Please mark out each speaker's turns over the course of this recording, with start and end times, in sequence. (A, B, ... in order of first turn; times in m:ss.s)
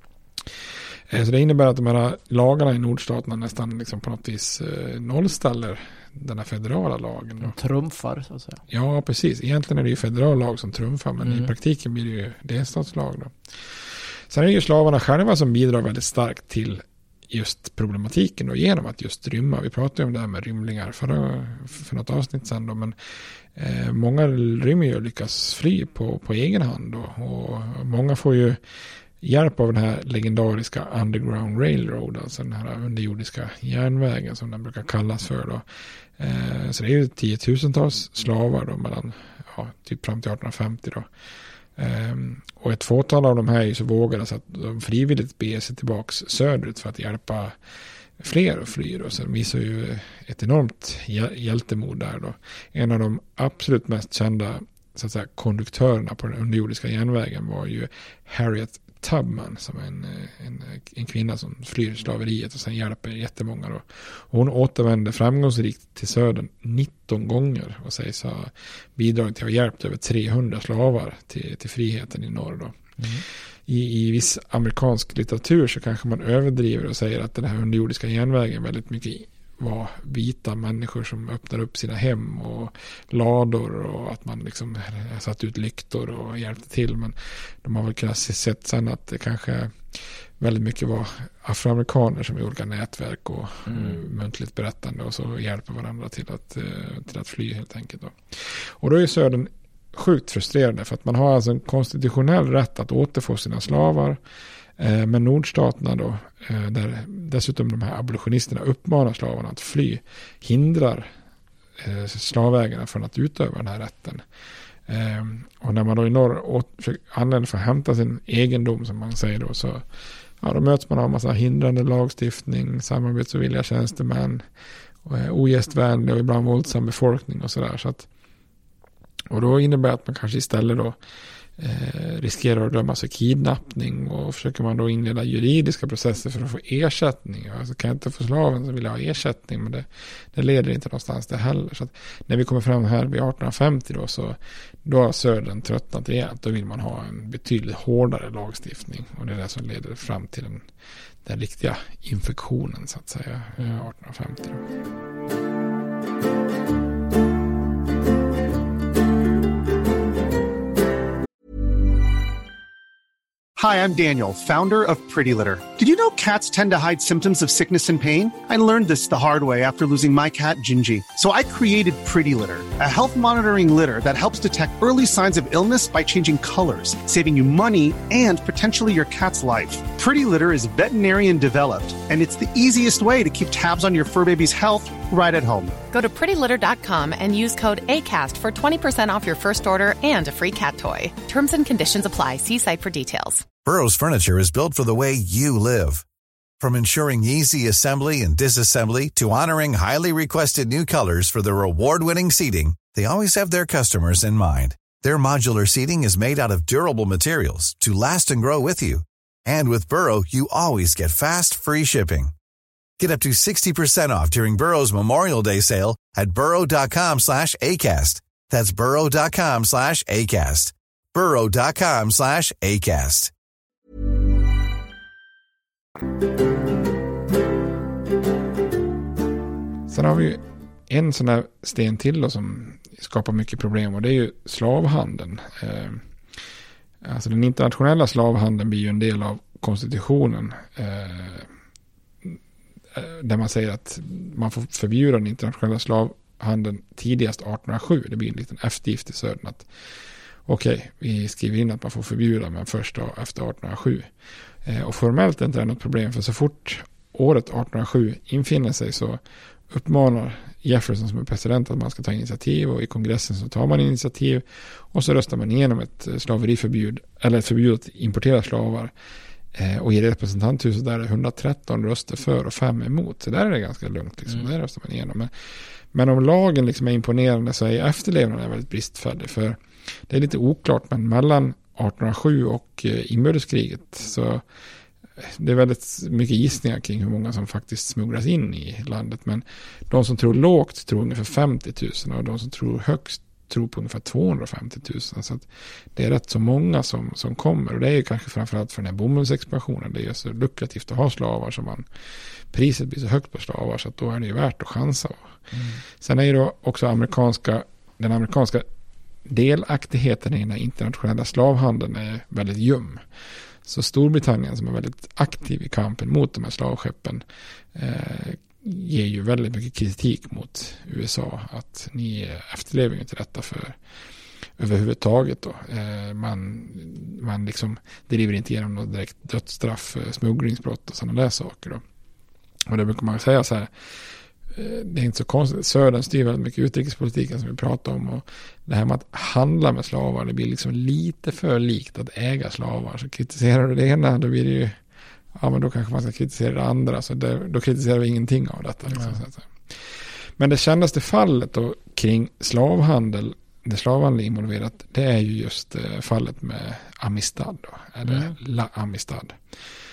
0:01.1-0:07.5 A
0:07.4-0:08.6 B
0:08.7-0:23.0 A
0:11.2-0:11.5 B
0:23.5-0:28.6 A
0:29.2-0:35.6 A
0:36.2-0:41.1 A
0:41.8-0:47.6 A
0:48.2-1:12.8 A
1:13.0-1:13.2 B
1:13.7-1:44.2 A
1:33.6-1:34.0 B
1:44.8-1:51.1 A
1:51.8-1:54.2 A
1:54.9-1:59.8 A
2:00.4-2:04.4 A
2:05.0-2:08.1 A
2:09.3-2:11.0 A
2:11.6-2:30.7 A
2:31.2-2:34.6 A
2:43.6-3:05.8 C
3:05.9-3:13.5 D
3:13.6-3:16.0 E
3:16.6-3:32.3 E
3:33.0-3:43.3 E
3:49.9-3:56.0 A
3:57.0-4:01.5 A
4:02.9-4:09.7 A
4:10.4-4:14.1 A
4:14.6-4:28.9 A
4:29.5-4:44.4 A
4:45.2-5:01.9 A
5:02.5-5:05.3 A
5:05.5-5:05.8 B
5:05.9-5:08.6 A
5:09.2-5:13.1 A
5:13.6-5:23.8 A
5:24.6-5:31.8 A
5:32.6-5:33.7 A
5:34.5-5:44.8 A
5:45.3-5:59.5 A
5:48.9-5:49.2 B
5:58.0-5:58.4 B